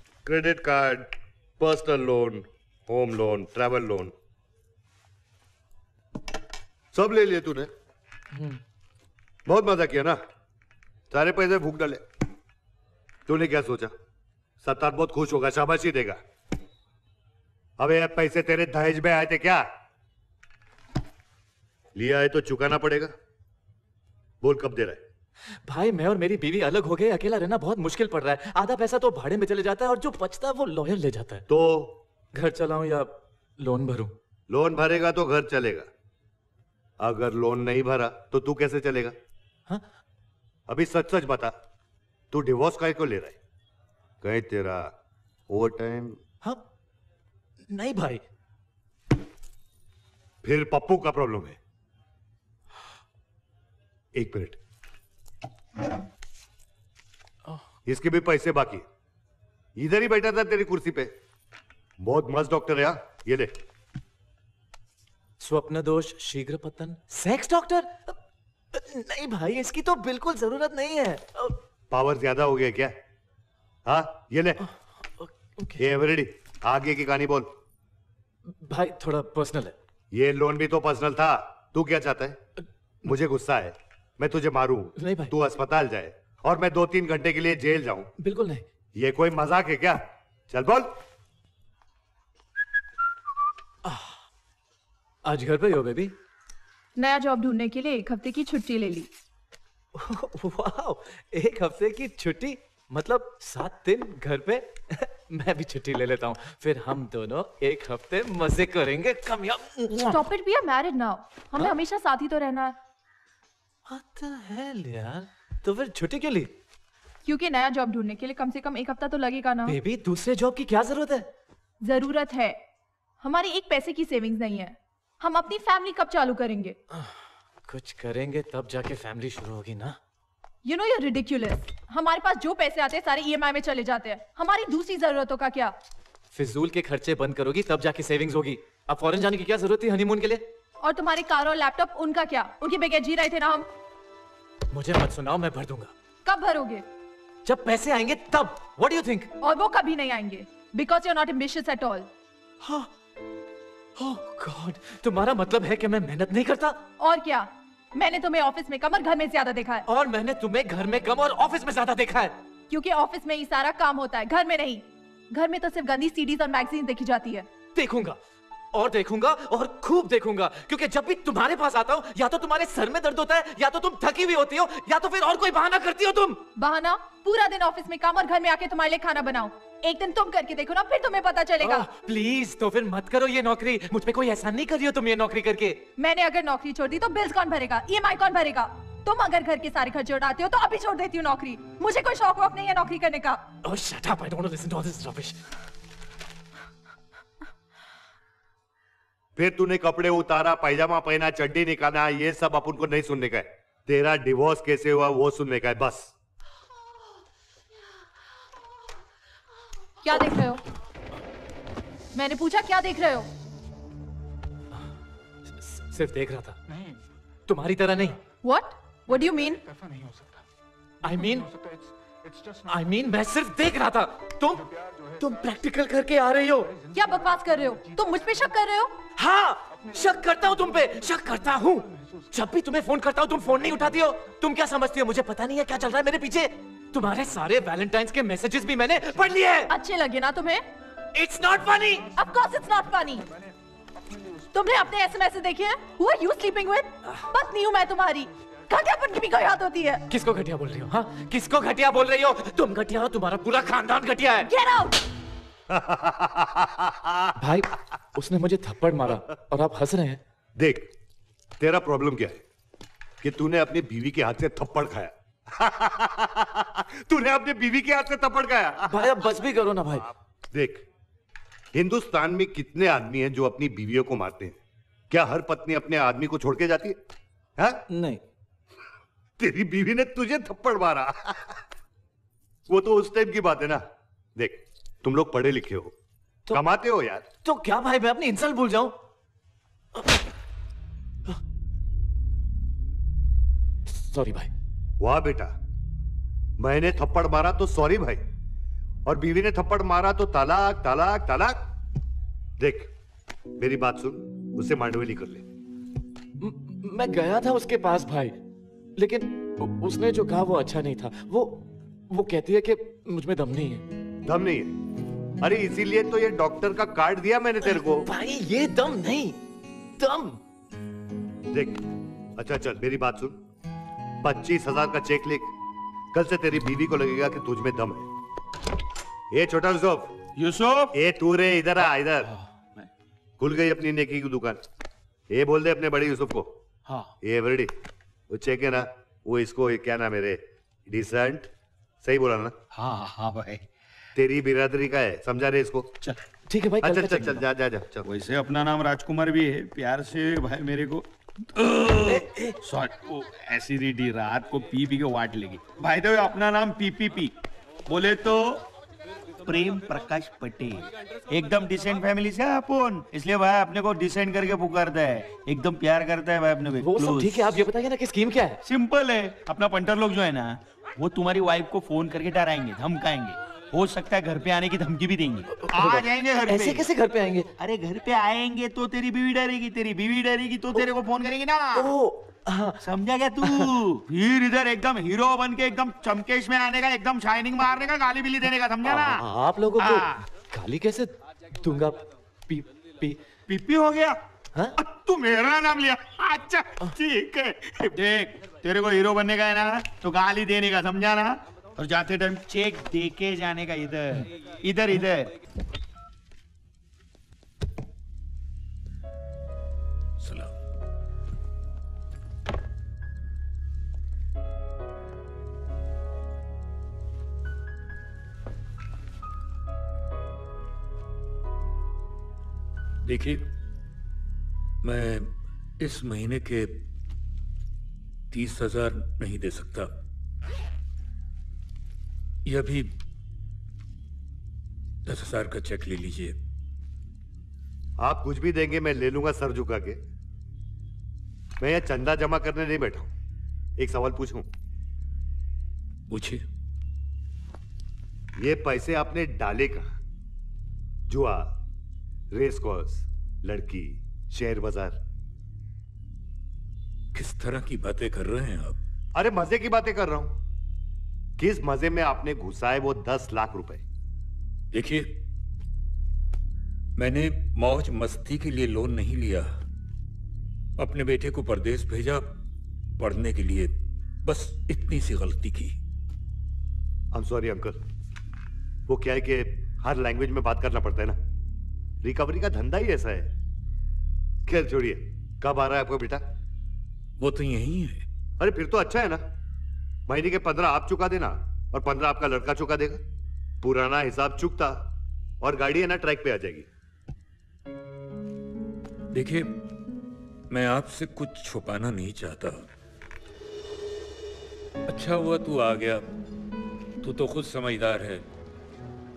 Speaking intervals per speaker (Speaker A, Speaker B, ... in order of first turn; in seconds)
Speaker A: 0.3-4.1, 6.9-7.7, 9.5-10.2, 11.1-12.0, 13.3-13.9, 14.6-16.2, 17.8-19.6, 21.9-23.1, 24.4-25.0, 31.5-31.9, 34.5-35.9, 37.0-39.1, 40.7-41.5, 42.3-43.4, 44.2-44.9, 45.5-46.2, 50.4-51.6, 54.1-54.6, 57.9-58.8, 59.8-61.1, 62.0-63.5, 71.9-72.9, 73.9-74.6, 75.8-77.5, 80.1-82.4, 83.1-88.1, 89.0-90.9, 199.3-206.1, 255.7-257.3, 260.6-260.9, 261.6-262.4, 263.2-269.0, 270.5-270.8, 271.7-274.6, 275.1-277.0, 279.4-281.5, 282.7-283.8, 284.4-285.9, 286.5-287.2, 295.0-295.5, 296.6-298.2, 299.1-301.6, 302.6-302.9, 303.6-305.4, 314.3-314.7, 315.4-318.1, 321.5-321.8, 322.4-323.4, 324.2-325.5, 326.1-328.1, 329.3-330.1, 330.9-332.3, 333.4-334.6, 335.3-336.5, 337.2-337.7, 338.3-341.5, 342.0-342.5, 344.1-345.9, 346.8-348.0, 438.0-440.0, 441.6-443.1, 443.8-444.4, 448.4-449.9, 451.1-451.5, 452.3-454.9, 459.1-460.3, 461.4-463.8, 477.1-477.8, 478.9-481.2, 482.0-483.3, 484.5-486.2, 488.4-489.2, 490.1-493.0, 493.6-494.8, 495.4-496.7
Speaker B: 25.6-31.4, 32.3-34.1, 47.7-48.2, 65.4-68.2, 68.7-71.5, 74.6-75.9, 78.5-79.7, 85.0-85.3, 88.2-88.6, 93.8-94.1, 95.2-96.1, 99.9-110.3, 113.9-116.5, 119.6-121.3, 127.7-130.0, 136.3-140.4, 144.7-145.9, 147.4-149.3, 152.6-152.9, 154.0-156.8, 159.9-162.3, 167.7-168.2, 168.7-176.4, 181.6-185.8, 193.6-195.4, 215.6-216.6, 217.5-218.2, 221.0-221.5, 222.6-226.7, 229.2-239.7, 241.1-242.1, 250.1-254.5, 257.4-260.2, 268.9-270.1, 277.9-278.2, 287.4-288.9, 293.9-294.5, 306.4-308.4, 309.0-313.8, 317.6-319.4, 320.0-320.4, 346.1-347.4, 352.1-352.5, 366.8-368.6, 375.6-377.5, 381.8-382.8, 388.8-393.2
Speaker C: 97.0-99.1, 110.1-112.7, 117.2-119.8, 121.8-122.6, 123.2-126.8, 130.6-135.7, 140.8-143.7, 146.2-146.8, 149.4-152.1, 157.0-159.8, 162.7-167.5, 176.6-181.8, 186.0-193.4, 210.0-210.6, 212.1-213.3, 218.4-219.6, 226.9-229.0, 239.7-240.7, 242.1-243.2, 244.5-250.0, 254.5-254.9
Speaker D: 330.4-330.9, 342.7-343.6, 348.1-351.1, 351.8-357.3, 357.9-358.6, 359.4-367.6, 368.6-376.9, 377.6-381.9, 382.8-389.2, 389.8-390.1, 393.5-394.2, 394.8-405.3
Speaker E: 410.2-410.5, 423.1-423.4, 424.8-426.7, 428.3-429.9, 432.4-432.9, 435.1-436.4, 446.1-446.4, 457.1-458.8, 464.7-465.1, 467.0-469.5, 470.8-472.4, 473.0-473.7, 474.2-475.7, 487.2-488.0, 499.1-499.5, 500.5-502.6, 504.9-506.1, 507.0-508.2